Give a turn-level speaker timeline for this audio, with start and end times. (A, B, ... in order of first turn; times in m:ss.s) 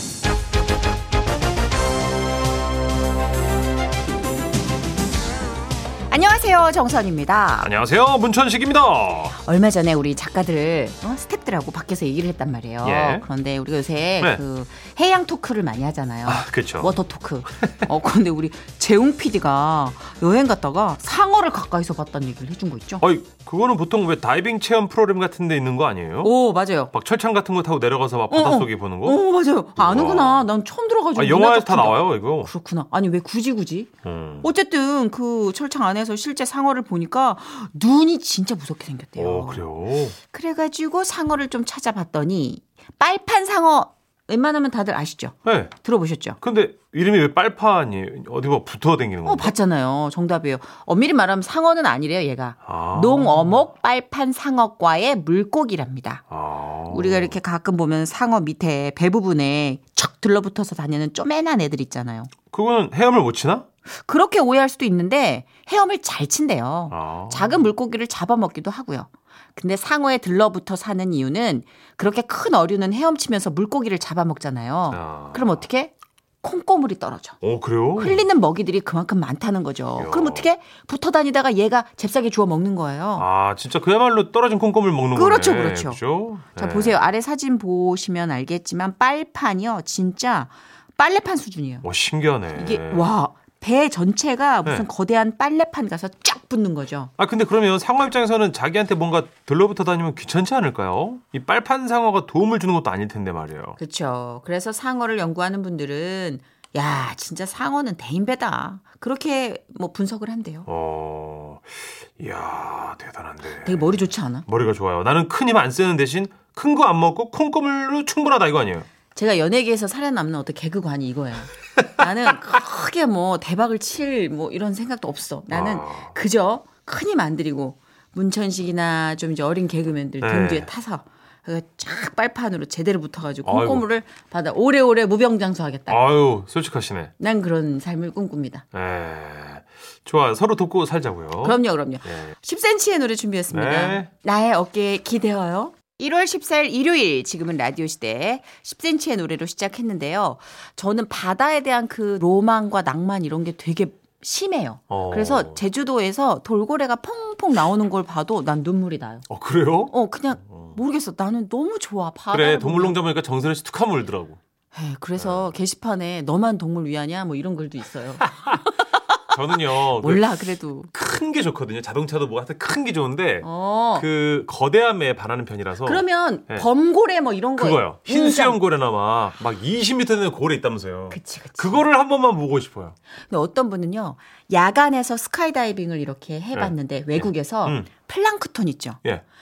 0:06.1-0:07.7 A
0:07.6-0:09.4 B
0:09.4-0:23.0 A
0:12.8-0:13.2 B
0:16.3-0:16.9 B
0:17.6-0:17.9 B
0:23.0-0:26.4 B
0:26.2-0:26.9 A
0:26.9-0:29.2 B
0:28.3-0:33.9 A
0:29.8-0:30.5 B
0:31.2-0:32.5 B
0:34.0-0:34.5 B
0:34.4-0:39.6 A
0:39.2-0:40.2 B
0:40.3-0:46.4 A
0:45.4-0:45.7 B
0:46.4-0:49.5 B
0:49.2-0:56.2 A
0:52.7-0:53.6 B
0:56.3-0:57.4 B
0:56.9-1:02.3 A
1:02.5-1:03.7 B
1:04.0-1:15.9 A
1:06.9-1:07.6 B
1:14.9-1:15.6 B
1:16.4-1:17.4 A
1:17.4-1:18.2 B
1:18.0-1:23.3 A
1:20.0-1:20.5 B
1:23.2-1:27.0 B
1:25.2-1:26.0 A
1:26.6-1:31.9 A
1:31.8-1:33.1 B
1:32.6-1:37.1 A
1:37.2-1:43.8 B
1:43.8-1:50.7 A
1:50.7-1:58.9 B
1:53.6-1:54.4 A
1:59.2-2:16.0 A
2:05.5-2:06.1 B
2:10.2-2:10.7 B
2:13.5-2:13.8 B
2:15.9-2:17.1 B
2:17.2-2:18.6 A
2:18.7-2:22.3 B
2:21.4-2:39.2 A
2:23.5-2:24.1 B
2:34.9-2:35.6 B
2:39.3-2:40.0 B
2:39.9-2:43.0 A
2:40.5-2:40.8 B
2:42.3-2:44.4 B
2:44.7-2:48.6 A
2:45.2-2:45.5 B
2:49.3-2:50.3 B
2:50.0-2:50.9 A
2:50.9-2:56.7 B
2:53.4-2:54.1 A
2:55.8-2:58.6 A
2:57.6-3:03.0 B
3:01.1-3:01.8 A
3:03.3-3:09.0 A
3:06.5-3:07.9 B